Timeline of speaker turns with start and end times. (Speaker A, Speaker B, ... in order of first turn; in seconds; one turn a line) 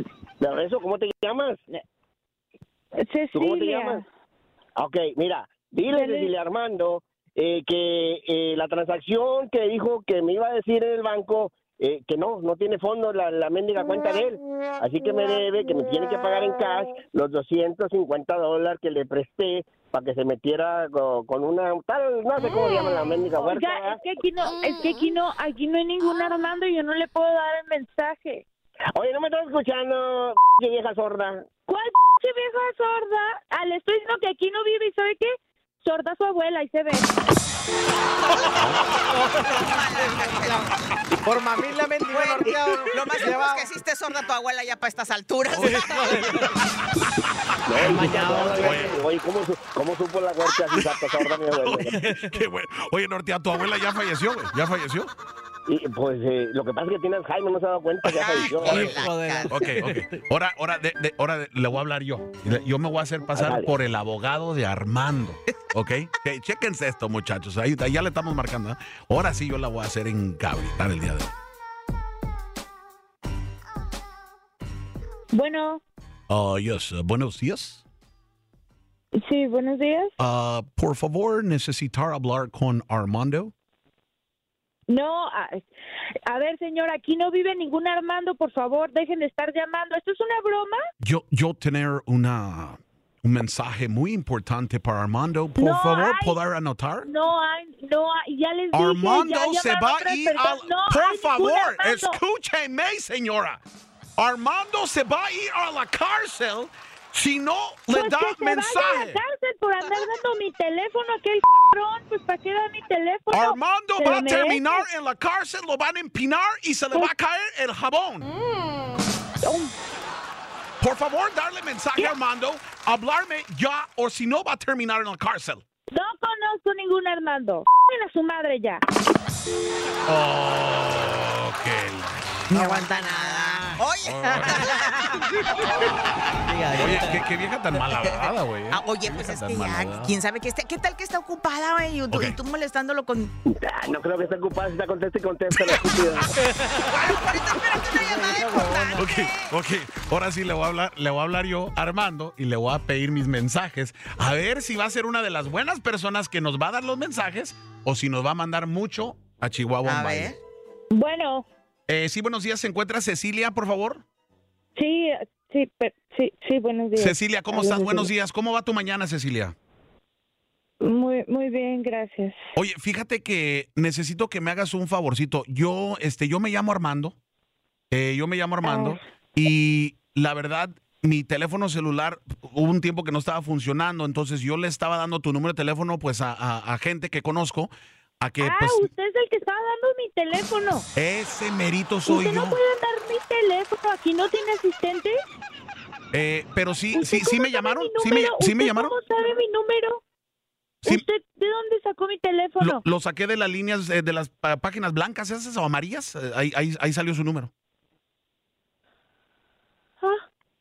Speaker A: 0.4-1.6
Speaker B: 3.0-4.0
Speaker A: 3.3-4.0
Speaker A: 4.8-24.0
Speaker B: 5.9-6.3
Speaker B: 23.4-28.4
Speaker A: 28.9-31.4
Speaker B: 31.7-37.1
Speaker C: 38.8-40.7
Speaker D: 38.9-43.7
Speaker C: 42.1-46.3
Speaker E: 45.6-49.0
Speaker D: 45.6-46.6
Speaker A: 47.7-51.9
Speaker D: 47.8-49.0
Speaker E: 50.7-55.1
Speaker D: 51.9-52.4
Speaker A: 55.7-58.9
Speaker E: 58.1-71.3
Speaker C: 58.1-59.6
Speaker D: 58.5-60.2
Speaker A: 63.3-63.7
Speaker B: 75.3-75.8
Speaker E: 76.3-77.8
Speaker B: 79.2-80.1
Speaker E: 80.2-83.5
Speaker B: 84.9-85.7
Speaker B: 86.3-90.8
Speaker E: 91.0-97.1
Speaker B: 95.6-96.4
Speaker B: 97.0-102.2
Speaker E: 98.7-103.6
Speaker E: 104.2-109.2
Speaker B: 107.9-114.8
Speaker E: 113.3-118.3
Speaker B: 119.4-119.7
Speaker E: 120.8-125.6
Speaker B: 125.9-128.8
Speaker E: 130.1-132.9
Speaker C: 132.5-135.2
Speaker D: 132.6-133.8
Speaker E: 134.1-140.1
Speaker D: 134.4-134.7
Speaker D: 136.4-137.2
Speaker C: 138.0-143.3
Speaker E: 142.1-142.4
Speaker A: 143.4-146.3
Speaker E: 145.5-145.8
Speaker D: 146.4-146.9
Speaker C: 146.9-149.5
Speaker D: 148.0-149.1
Speaker E: 148.9-160.3
Speaker C: 159.8-160.4
Speaker B: 160.9-161.4
Speaker E: 161.9-164.0
Speaker B: 164.8-168.1
Speaker E: 166.9-169.6
Speaker B: 170.8-172.4
Speaker E: 172.6-177.2
Speaker E: 177.9-188.9
Speaker B: 178.6-179.0
Speaker B: 188.4-190.9
Speaker E: 190.9-192.6
Speaker B: 192.1-195.2
Speaker E: 196.1-198.9
Speaker B: 196.9-200.0
Speaker B: 200.9-202.8
Speaker E: 202.6-207.5